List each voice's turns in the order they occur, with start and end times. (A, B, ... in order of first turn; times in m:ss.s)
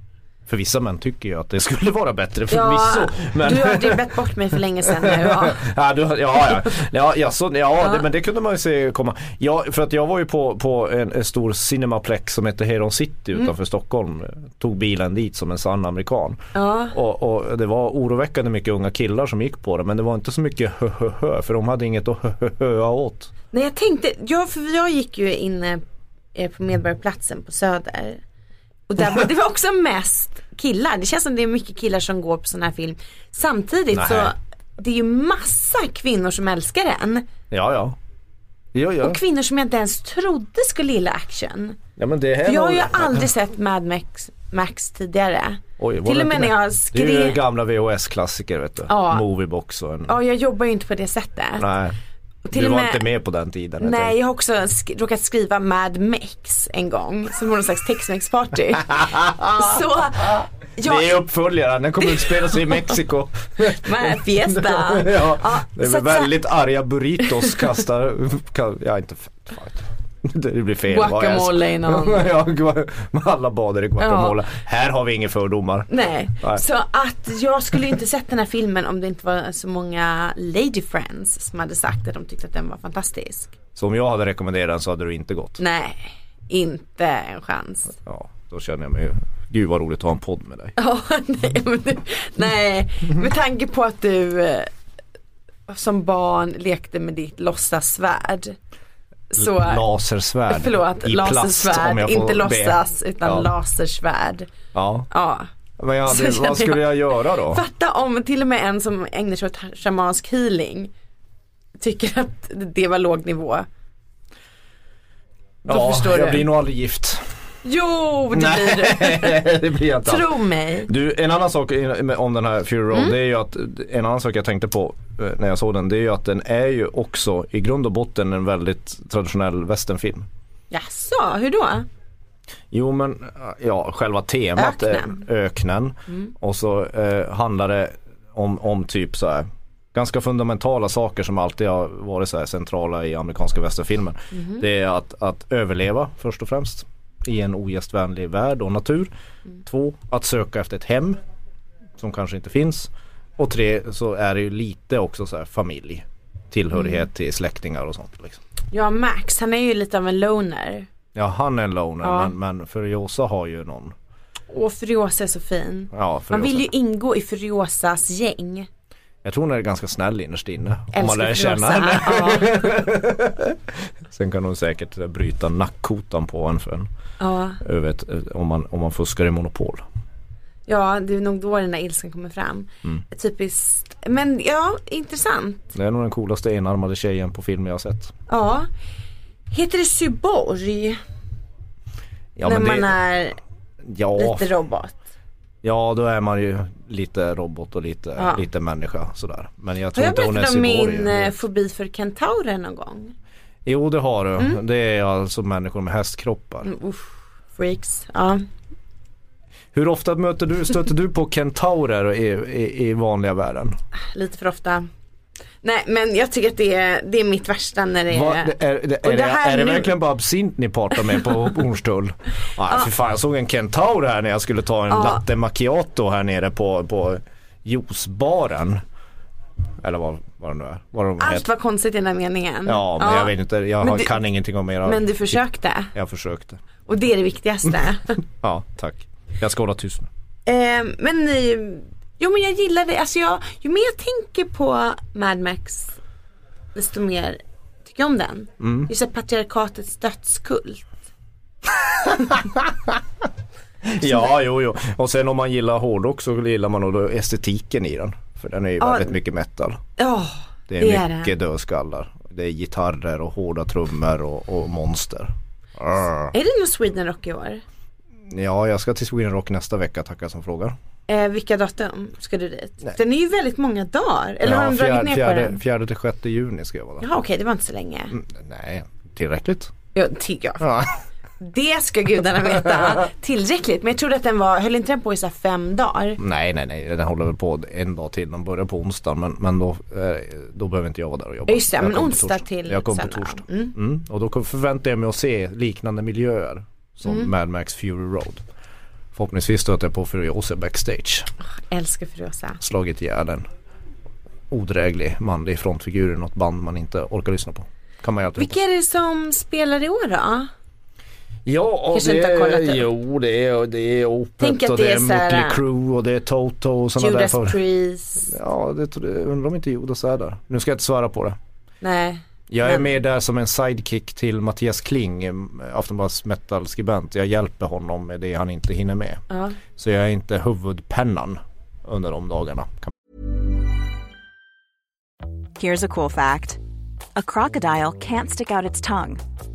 0:00.5-0:04.1 A
0:02.5-0:05.6 B
0:04.9-0:23.3 A
0:16.5-0:17.0 B
0:23.5-0:25.8 B
0:26.3-0:28.2 B
0:28.9-0:37.3 B
0:33.9-0:34.3 A
0:37.5-0:38.0 A
0:38.7-0:39.2 A
0:39.0-0:41.8 B
0:42.0-0:43.3 A
0:42.4-0:47.4 B
0:45.8-0:50.1 A
0:48.9-0:49.2 B
0:50.1-0:51.7 B
0:51.6-0:52.0 A
0:52.4-0:53.0 B
0:52.5-0:54.2 A
0:53.8-1:01.2 B
0:58.9-0:59.8 A
1:00.8-1:15.9 A
1:02.1-1:02.8 B
1:03.7-1:06.3 B
1:10.9-1:12.2 B
1:14.0-1:14.4 B
1:15.9-1:23.6 B
1:23.8-1:25.6 A
1:25.6-1:28.0 B
1:28.0-1:30.8 A
1:30.8-1:34.7 B
1:35.7-1:38.6 B
1:39.3-1:39.8 B
1:39.4-1:43.5 A
1:40.5-1:44.5 B
1:44.7-1:45.1 A
1:45.1-1:45.5 B
1:45.8-1:47.6 A
1:46.1-1:50.9 B
1:51.8-1:53.7 B
1:55.6-1:56.5 B
1:55.7-1:57.3 A
1:57.6-2:00.9 B
1:58.3-2:00.3 A
2:00.9-2:10.3 A
2:10.7-2:11.9 B
2:12.7-2:29.1 A
2:14.6-2:15.2 B
2:24.3-2:24.6 B
2:29.6-2:31.2 A
2:32.0-2:38.4 A
2:36.8-2:37.0 B
2:38.7-2:40.9 B
2:41.2-2:44.0 A
2:42.0-2:42.3 B
2:44.5-2:48.7 B
2:45.9-2:46.7 A
2:49.2-2:56.9 A
2:50.9-2:52.8 B
2:57.2-2:57.6 B
2:57.6-2:59.8 A
3:00.7-3:05.7 B
3:05.8-3:08.1 A
3:08.3-3:08.7 B
3:09.5-3:11.0 B
3:12.4-3:13.0 A
3:12.4-3:13.4 B
3:13.8-3:14.5 A
3:14.2-3:15.0 B
3:15.6-3:21.4 A
3:18.2-3:18.4 B
3:19.9-3:23.1 B
3:23.6-3:26.7 A
3:26.6-3:28.4 B
3:29.7-3:33.8 A
3:34.1-3:34.9 B
3:35.6-3:40.0 B
3:38.1-3:48.8 A
3:44.9-3:45.2 B
3:49.8-3:51.5 A
3:51.2-3:54.1 B
3:52.7-3:55.4 A
3:54.8-3:55.9 B
3:55.9-3:56.6 A
3:56.9-3:58.2 B
3:58.4-4:00.1 A
4:00.5-4:06.0 B
4:06.8-4:10.9 B
4:08.6-4:08.9 A
4:12.0-4:13.0 A
4:13.8-4:19.8 A
4:14.0-4:14.3 B
4:18.8-4:19.2 B
4:20.0-4:21.3 B
4:20.7-4:26.3 A
4:26.3-4:27.6 B
4:28.3-4:30.8 A
4:31.1-4:35.6 B
4:34.4-4:37.0 A
4:37.0-4:38.2 B
4:38.1-4:39.7 A
4:40.0-4:40.7 B
4:40.6-4:40.9 A
4:41.4-4:46.2 B
4:46.2-4:58.4 A
4:51.5-4:53.7 B
4:59.1-5:01.3 A
5:01.7-5:02.6 B
5:02.6-5:03.5 A
5:04.5-5:08.6 A
5:08.4-5:10.5 B
5:11.5-5:17.6 A
5:11.9-5:12.9 B
5:14.4-5:15.6 B
5:17.0-5:18.3 B
5:18.3-5:21.4 A
5:21.8-5:22.9 B
5:22.5-5:32.9 A
5:29.3-5:29.6 B
5:35.6-5:36.6 C
5:37.2-5:39.2 C